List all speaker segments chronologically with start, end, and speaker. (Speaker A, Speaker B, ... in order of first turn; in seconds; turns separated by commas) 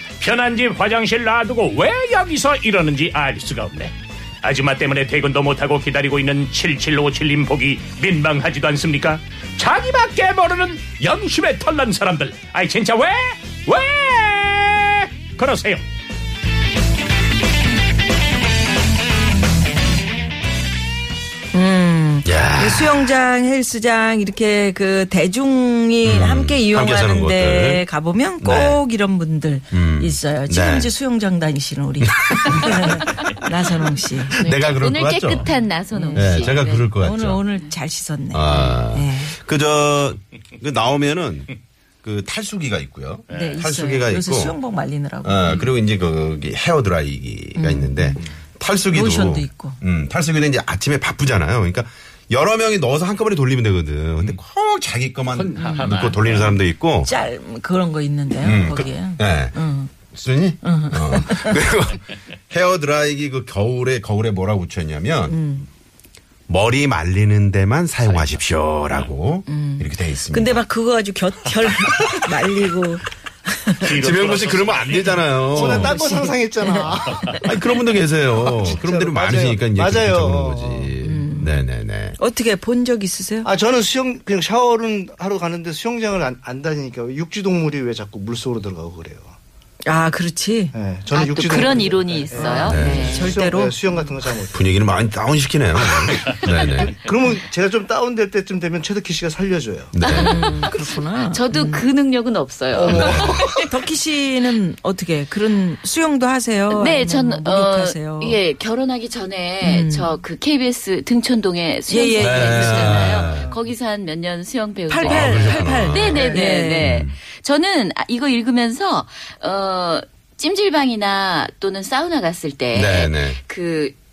Speaker A: 0.2-15.8, Speaker B: 21.5-34.5, Speaker C: 22.2-23.1, Speaker C: 26.0-27.9, Speaker C: 28.4-28.8, Speaker C: 29.7-30.9, Speaker C: 32.0-33.0, Speaker C: 34.3-35.5, Speaker D: 34.4-36.9, Speaker B: 35.4-39.4, Speaker C: 36.1-37.4, Speaker C: 38.3-44.6, Speaker A: 43.3-43.7, Speaker B: 43.3-45.6, Speaker C: 45.2-57.1, Speaker A: 45.5-45.7, Speaker B: 47.5-48.2, Speaker B: 48.9-49.8, Speaker A: 55.3-56.6, Speaker B: 55.6-56.0, Speaker B: 57.0-59.9, Speaker C: 58.4-59.6, Speaker C: 60.1-65.4, Speaker B: 60.6-61.6, Speaker B: 65.3-65.7, Speaker C: 66.5-70.6, Speaker A: 68.0-68.4, Speaker B: 69.5-74.0, Speaker A: 73.8-75.2, Speaker C: 73.8-76.0, Speaker E: 75.5-77.3, Speaker B: 75.5-77.5, Speaker C: 77.4-82.2, Speaker E: 78.3-80.9, Speaker B: 81.0-81.5, Speaker B: 82.2-83.5, Speaker E: 83.4-89.3, Speaker B: 89.8-90.7, Speaker E: 90.7-94.7, Speaker D: 91.1-93.2, Speaker B: 91.5-91.7, Speaker B: 92.3-93.8, Speaker C: 92.6-93.3, Speaker C: 94.5-96.9, Speaker E: 96.7-100.0, Speaker C: 99.9-100.6, Speaker B: 100.0-101.9, Speaker D: 100.0-100.7, Speaker D: 101.3-103.5, Speaker E: 102.7-103.2, Speaker C: 102.9-103.4, Speaker B: 103.1-108.4, Speaker D: 106.7-123.9, Speaker B: 109.6-110.2, Speaker B: 111.9-113.2, Speaker C: 112.2-113.5, Speaker B: 114.9-116.9, Speaker C: 115.0-117.2, Speaker C: 122.7-123.4